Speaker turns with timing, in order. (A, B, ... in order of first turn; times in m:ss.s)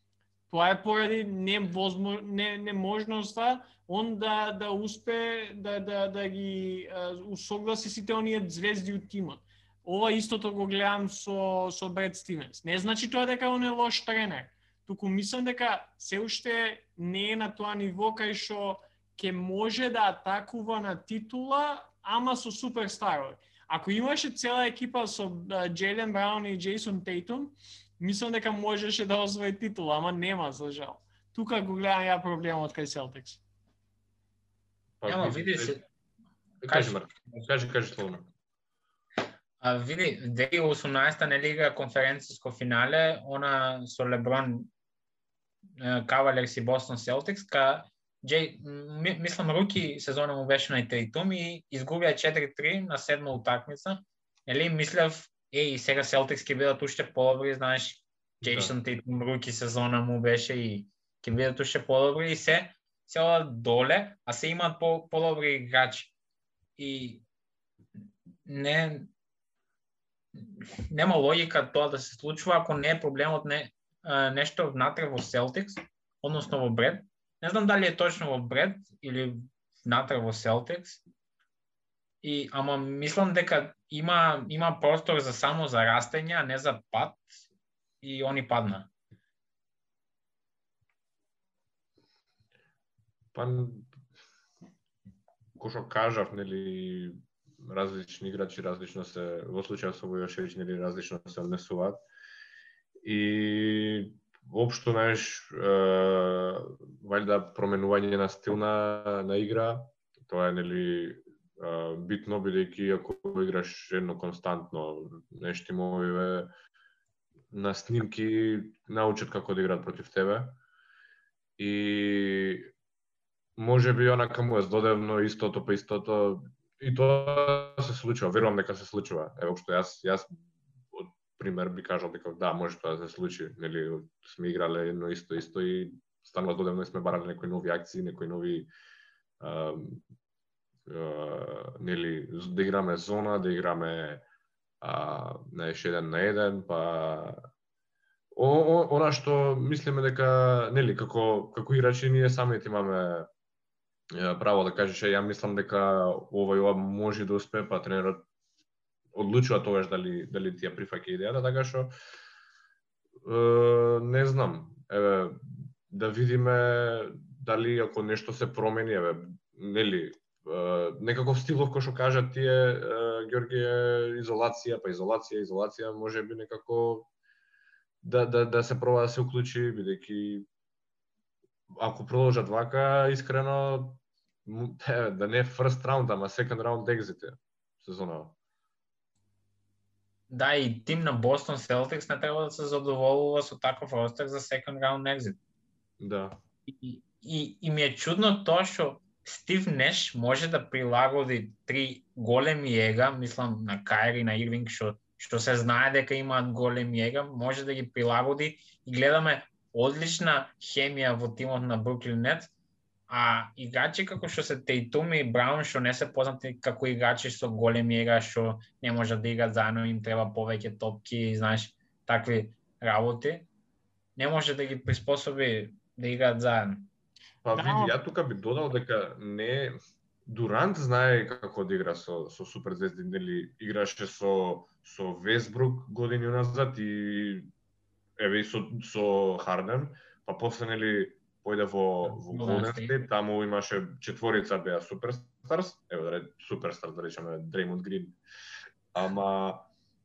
0:00.5-0:33.4 A
0:35.0-0:35.8 B
0:35.1-0:35.8 C
0:36.6-0:38.3 B
0:36.7-0:37.0 C
0:39.6-0:44.7 C
0:45.8-1:06.1 C
0:58.4-0:58.7 B
1:06.8-1:07.2 C
1:08.5-1:09.1 C
1:10.4-1:21.0 C
1:22.2-1:27.3 C
1:28.0-1:28.9 C
1:33.3-1:33.9 B
1:35.6-1:42.0 B
1:43.0-1:56.5 B
1:57.5-2:00.6 B
2:01.6-2:02.7 B
2:03.6-2:10.4 B
2:10.9-2:18.7 B
2:19.4-2:20.0 B
2:20.9-2:24.2 B
2:24.8-2:27.5 B
2:28.3-2:33.3 B
2:34.1-2:38.2 B
2:39.1-2:41.9 B
2:43.2-2:57.1 B
2:58.0-3:00.5 B
3:01.8-3:08.4 B
3:10.3-3:15.4 C
3:16.0-3:16.4 B
3:16.7-3:32.5 C
3:33.1-3:43.5 C
3:44.2-3:46.9 C
3:47.4-3:57.5 B
3:47.5-3:48.0 A
3:58.2-4:08.2 B
4:02.1-4:03.0 C
4:08.9-4:09.7 B